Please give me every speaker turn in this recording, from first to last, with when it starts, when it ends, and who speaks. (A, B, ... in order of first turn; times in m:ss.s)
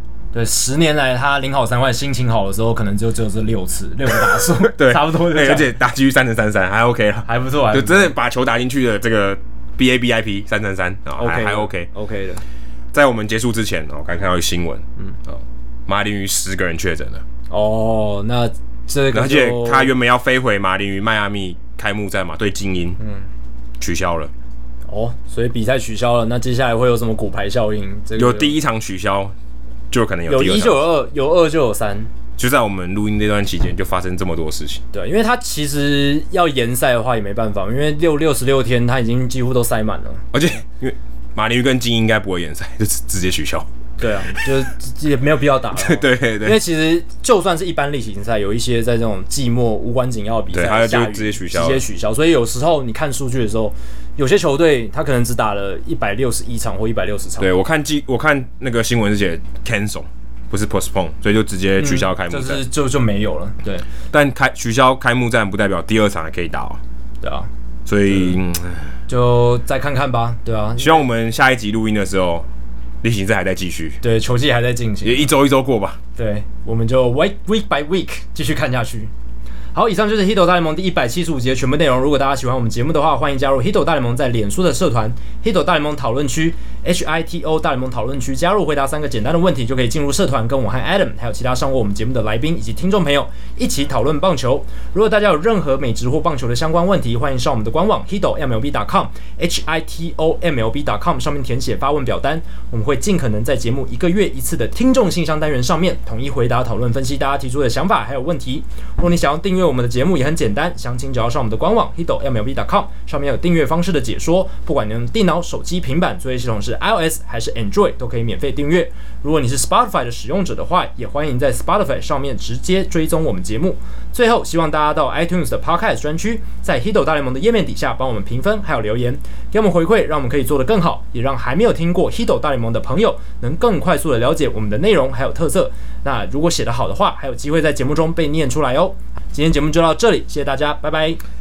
0:00.3-0:05.7 A
0:04.2-0:11.9 B
0:07.3-0:08.1 A
0:11.2-0:12.4 A
0:12.9-0:17.2 B
0:17.5-0:19.9 A
0:19.1-0:23.0 B
0:23.0-0:23.3 A
0:23.8-0:24.3 B
0:24.9-0:28.5 A
0:28.2-0:29.3 B
0:29.9-0:30.8 B
0:30.3-0:32.1 A
0:32.4-0:34.8 B
0:34.9-0:40.2 A
0:40.3-0:43.7 B
0:44.0-0:57.5 A
0:45.7-0:46.6 B
0:50.5-0:51.8 B
0:57.4-1:02.6 B
1:01.8-1:03.9 A
1:04.1-1:06.8 B
1:07.2-1:07.5 A
1:07.9-1:09.0 B
1:09.1-1:11.0 A
1:10.8-1:12.5 B
1:13.0-1:14.0 B
1:14.0-1:15.3 A
1:15.0-1:16.0 B
1:16.2-1:19.1 A
1:19.8-2:21.2 A